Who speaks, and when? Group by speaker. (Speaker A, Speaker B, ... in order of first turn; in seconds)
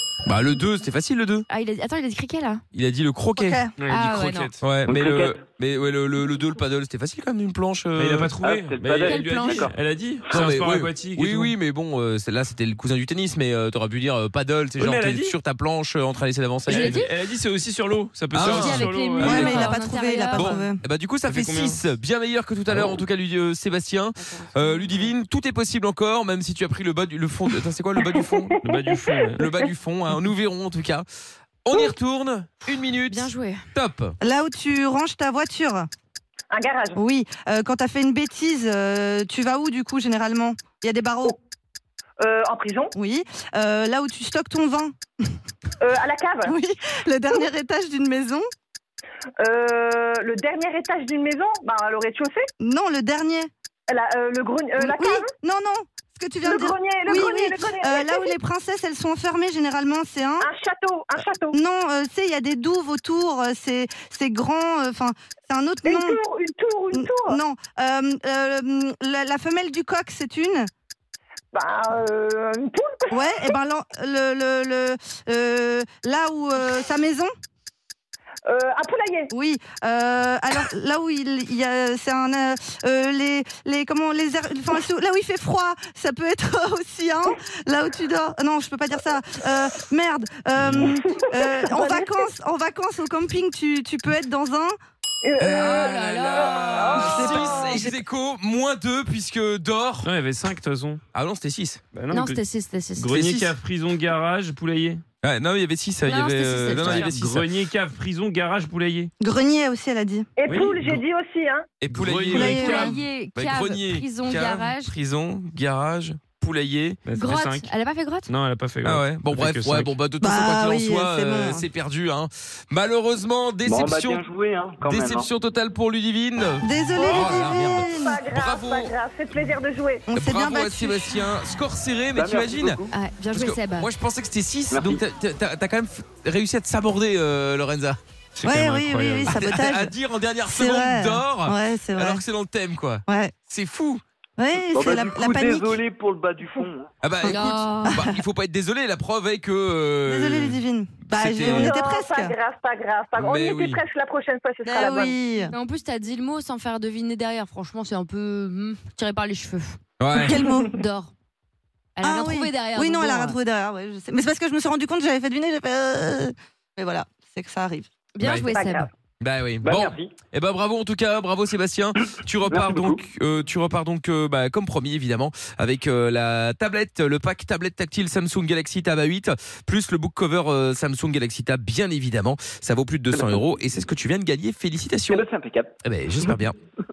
Speaker A: 0.2-1.4, 2.7-3.6, 4.6-8.3, 10.3-17.0, 18.3-19.8, 20.3-28.6, 29.4-31.1, 31.6-34.1, 95.4-100.1, 101.1-101.8, 103.1-103.5, 105.2-107.5, 111.8-117.0, 118.8-124.2, 124.8-129.6, 130.1-132.8, 133.3-138.0, 139.3-144.0, 147.0-151.7, 153.1-153.8, 160.0-160.4, 168.2-168.5, 169.2-185.2, 185.8-186.6
Speaker B: 1.5-2.6, 3.9-4.5, 9.0-9.7, 16.7-17.1, 18.4-20.6, 24.2-25.1, 33.1-33.6, 95.5-97.4, 102.1-103.1, 106.0-107.2, 112.3-114.9, 117.1-118.3, 132.9-133.9, 147.2-148.0, 155.4-159.8, 160.3-161.1, 162.0-163.3, 168.1-168.9
Speaker C: 3.4-3.7, 19.2-20.8, 34.2-35.9, 37.0-41.4, 43.0-45.3, 46.4-48.5, 52.6-53.5, 54.8-60.5, 61.5-66.2, 66.9-70.7, 73.1-77.3, 79.3-94.7, 96.9-98.0, 109.2-110.3, 112.3-113.0, 120.2-121.6, 126.6-128.2, 130.1-131.3, 138.4-139.9, 140.4-142.2, 143.1-143.3, 144.4-145.8, 147.8-148.2, 150.1-152.3, 154.7-155.5, 160.2-160.8, 162.0-167.9
Speaker D: 3.8-4.7, 8.0-11.6, 14.8-15.3, 16.7-19.5, 21.2-21.8, 22.7-22.9, 28.6-29.4, 100.0-101.0, 101.9-102.4, 102.9-105.0, 106.6-109.1, 110.5-111.0, 111.9-113.0, 117.0-117.7, 118.3-120.0, 138.3-139.4
Speaker E: 4.9-5.4, 8.4-9.7, 123.7-125.3, 132.1-132.9, 134.7-135.0, 144.7-146.9, 169.6-170.1, 172.5-173.0, 185.1-185.7
Speaker F: 27.9-29.7, 36.5-37.0, 42.2-42.9, 45.8-46.5, 49.4-52.5, 53.9-55.2, 56.4-58.3, 60.4-61.5, 65.8-67.4, 71.5-73.5, 78.5-79.3, 91.0-92.2, 95.2-97.8, 110.4-111.7, 127.0-130.1, 151.5-155.2, 168.5-168.9